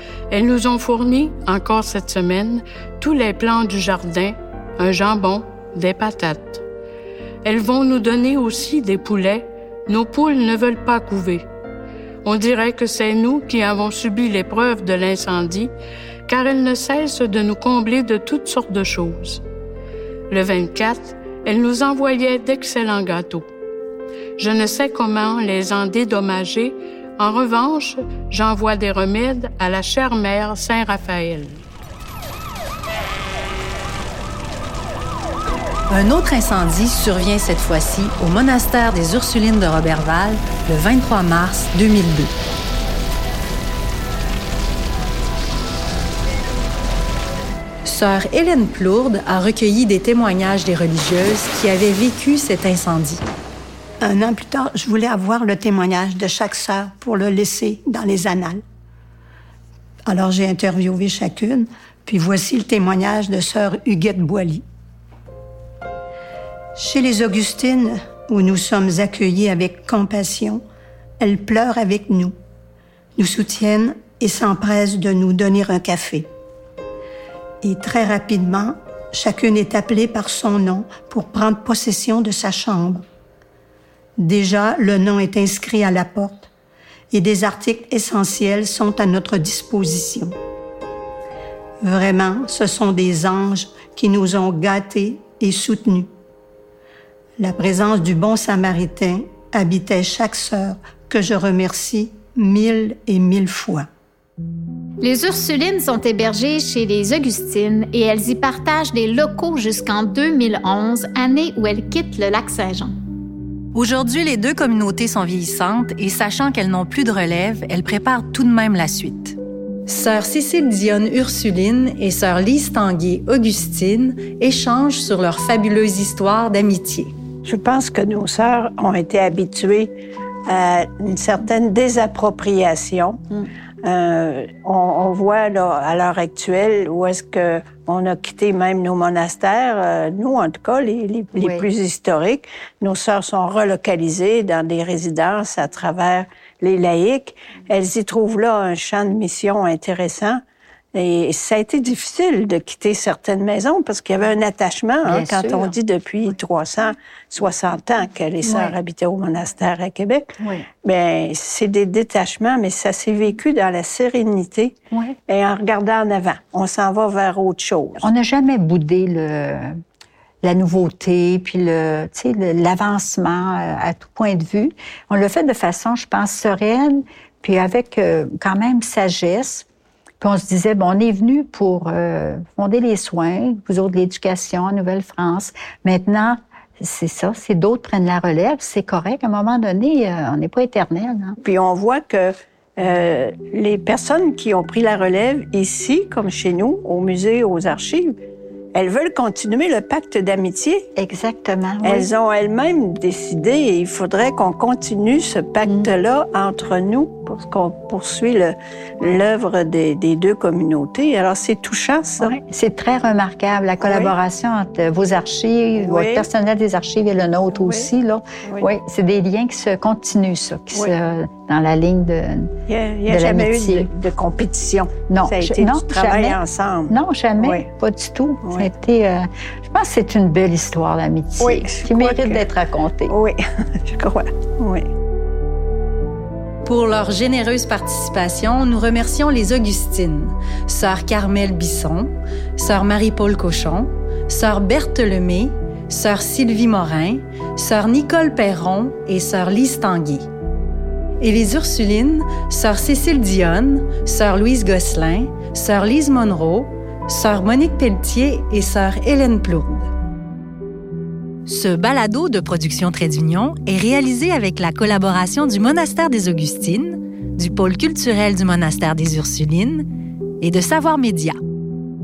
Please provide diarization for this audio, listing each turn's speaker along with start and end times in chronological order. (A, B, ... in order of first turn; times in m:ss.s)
0:00.3-0:06.6 A
0:07.4-0:11.4 A
0:12.2-0:15.7 A
0:16.3-0:19.4 A
0:20.3-0:23.5 A
0:24.4-0:31.6 A
0:35.9-0:42.3 B
0:47.8-0:53.2 B
0:54.0-0:58.6 C
1:00.1-1:04.6 C
1:06.8-1:10.6 C
1:11.2-1:12.3 C
1:13.2-1:16.3 C
1:17.6-1:23.0 C
1:24.2-1:26.5 C
1:27.1-1:30.4 C
1:31.8-1:36.1 C
1:37.4-1:43.9 C
1:45.0-1:52.9 D
1:53.7-2:07.1 B
2:07.4-2:09.9 E
2:10.4-2:13.2 E
2:13.8-2:30.4 E
2:21.4-2:21.6 F
2:30.9-2:40.3 E
2:35.0-2:35.7 F
2:38.4-2:38.7 F
2:40.4-2:40.6 F
2:40.8-2:44.8 E
2:44.9-2:45.2 F
2:45.3-2:48.1 E
2:48.0-2:49.8 F
2:50.4-2:59.6 F
3:00.2-3:11.4 F
3:11.4-3:18.2 E
3:18.7-3:20.9 E
3:21.0-3:22.1 F
3:21.8-3:32.4 E
3:32.2-3:42.5 F
3:33.8-3:34.1 E
3:35.8-3:36.3 E
3:37.6-3:37.9 E
3:42.7-3:47.7 E
3:43.1-3:43.9 F
3:45.1-3:53.1 F
3:48.4-3:48.7 E
3:51.4-3:52.4 E
3:53.1-3:54.9 E
3:56.6-4:10.3 B
4:11.2-4:19.9 B
4:21.4-4:29.9 B
4:30.4-4:31.4 B